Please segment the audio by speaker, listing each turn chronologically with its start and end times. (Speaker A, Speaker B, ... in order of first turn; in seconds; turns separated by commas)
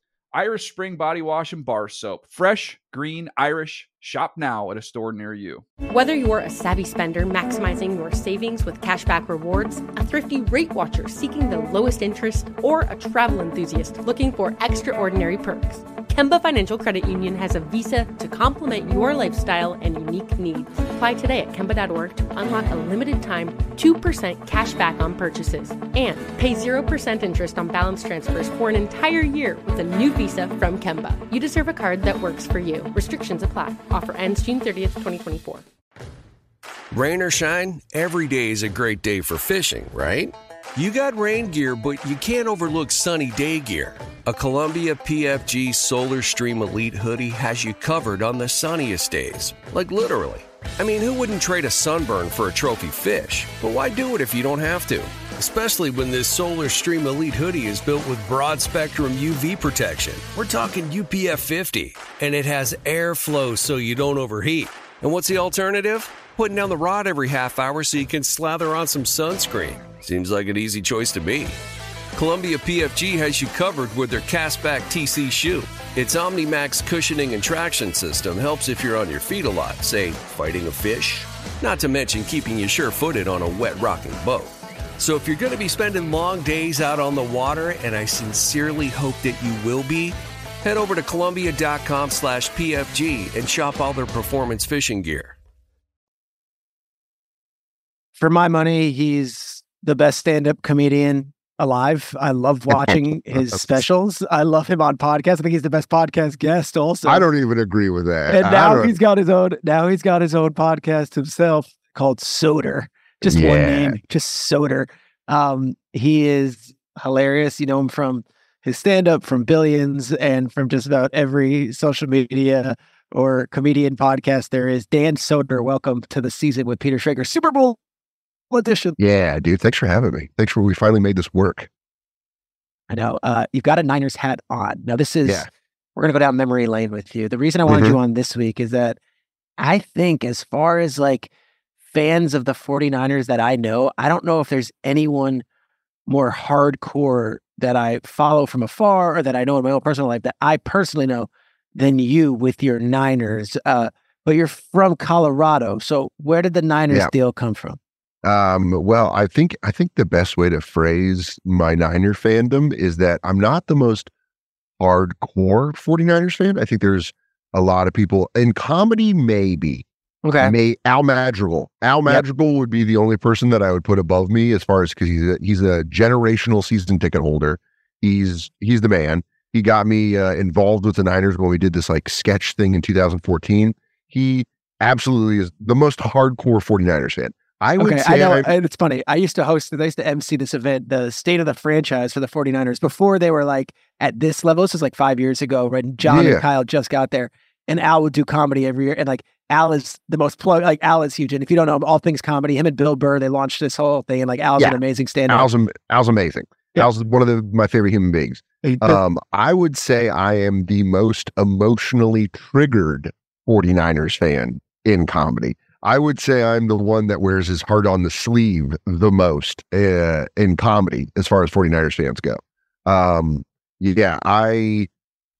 Speaker A: 0.3-5.6, Speaker B: 5.9-35.6, Speaker C: 36.9-71.6, Speaker C: 72.1-95.4, Speaker D: 98.2-107.2, Speaker E: 102.7-103.8, Speaker E: 107.0-108.9, Speaker D: 108.3-127.8, Speaker E: 113.2-114.0, Speaker D: 128.5-129.0, Speaker E: 129.0-131.7, Speaker D: 132.9-139.0, Speaker E: 137.7-138.0, Speaker D: 139.6-141.3, Speaker D: 141.9-145.4, Speaker D: 146.1-157.8, Speaker E: 158.2-164.1, Speaker E: 164.8-169.9, Speaker D: 170.2-170.6, Speaker E: 170.4-188.5, Speaker D: 187.8-205.5, Speaker E: 196.1-196.4, Speaker E: 204.6-224.9, Speaker D: 208.6-209.0